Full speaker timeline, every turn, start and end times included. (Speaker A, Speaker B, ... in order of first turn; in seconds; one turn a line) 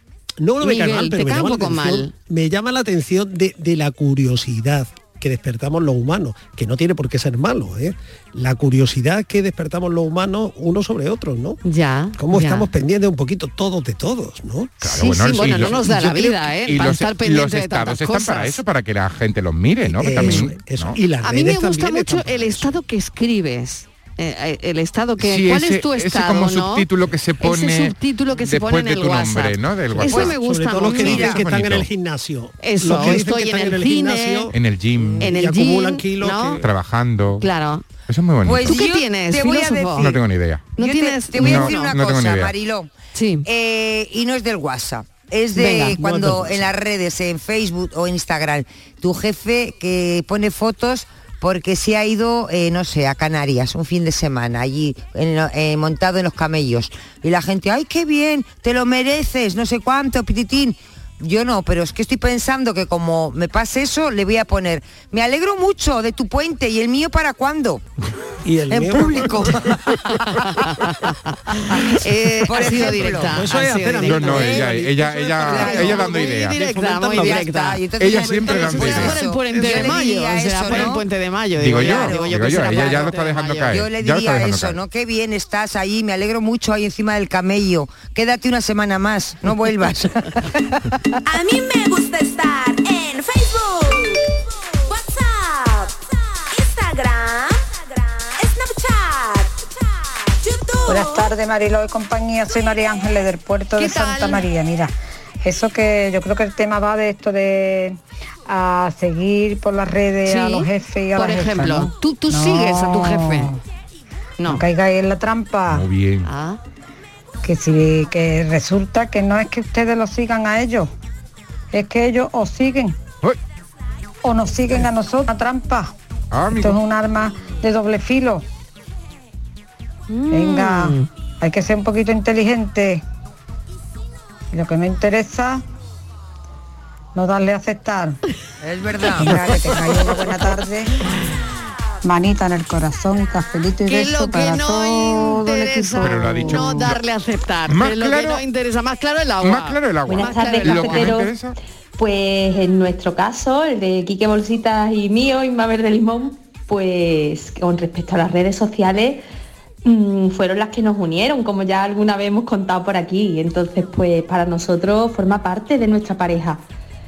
Speaker A: 0.4-11.6
Speaker B: 0.6-2.1
Speaker B: 11.6-12.7
Speaker A: 12.2-14.8
Speaker C: 14.8-21.0
Speaker B: 14.8-18.6
Speaker A: 15.4-16.3
Speaker A: 19.8-22.8
Speaker B: 20.1-20.4
Speaker B: 21.2-26.9
Speaker C: 25.2-31.9
Speaker B: 27.4-31.4
Speaker A: 29.9-36.6
Speaker D: 30.1-30.3
Speaker D: 31.0-31.4
Speaker B: 32.6-34.5
Speaker C: 34.5-35.3
Speaker B: 35.2-36.6
Speaker C: 36.6-37.5
Speaker B: 37.4-37.8
Speaker C: 38.1-38.8
Speaker D: 38.4-40.2
Speaker B: 38.6-40.2
Speaker C: 40.0-40.7
Speaker B: 40.8-41.9
Speaker D: 40.8-42.9
Speaker C: 41.4-42.5
Speaker B: 43.1-43.5
Speaker D: 43.4-67.8
Speaker B: 45.5-46.0
Speaker A: 45.8-46.7
Speaker A: 68.4-69.8
Speaker D: 68.7-69.8
Speaker B: 70.2-74.6
Speaker D: 72.4-73.5
Speaker A: 72.7-77.5
Speaker C: 74.0-76.6
Speaker D: 75.5-76.0
Speaker B: 75.6-77.8
Speaker D: 77.1-81.0
Speaker C: 78.0-79.2
Speaker A: 78.0-80.0
Speaker B: 78.5-83.8
Speaker C: 81.6-84.8
Speaker D: 81.7-83.1
Speaker D: 83.7-90.4
Speaker E: 91.3-101.3
Speaker F: 100.9-113.6
Speaker B: 103.8-104.5
Speaker B: 110.2-113.5
Speaker B: 114.4-114.7
Speaker F: 114.4-115.9
Speaker C: 115.7-116.3
Speaker B: 116.2-116.6
Speaker F: 117.4-120.9
Speaker F: 121.7-123.0
Speaker F: 124.2-125.9
Speaker C: 126.3-126.8
Speaker F: 126.5-128.4
Speaker B: 130.1-131.1
Speaker F: 130.3-133.0
Speaker F: 134.5-135.6
Speaker F: 137.1-138.2
Speaker D: 138.6-139.8
Speaker F: 139.1-141.0
Speaker F: 142.0-146.6
Speaker B: 143.9-151.2
Speaker C: 146.0-147.0
Speaker C: 147.7-148.4
Speaker C: 149.4-151.6
Speaker G: 150.1-151.3
Speaker G: 152.0-159.2
Speaker G: 159.8-166.6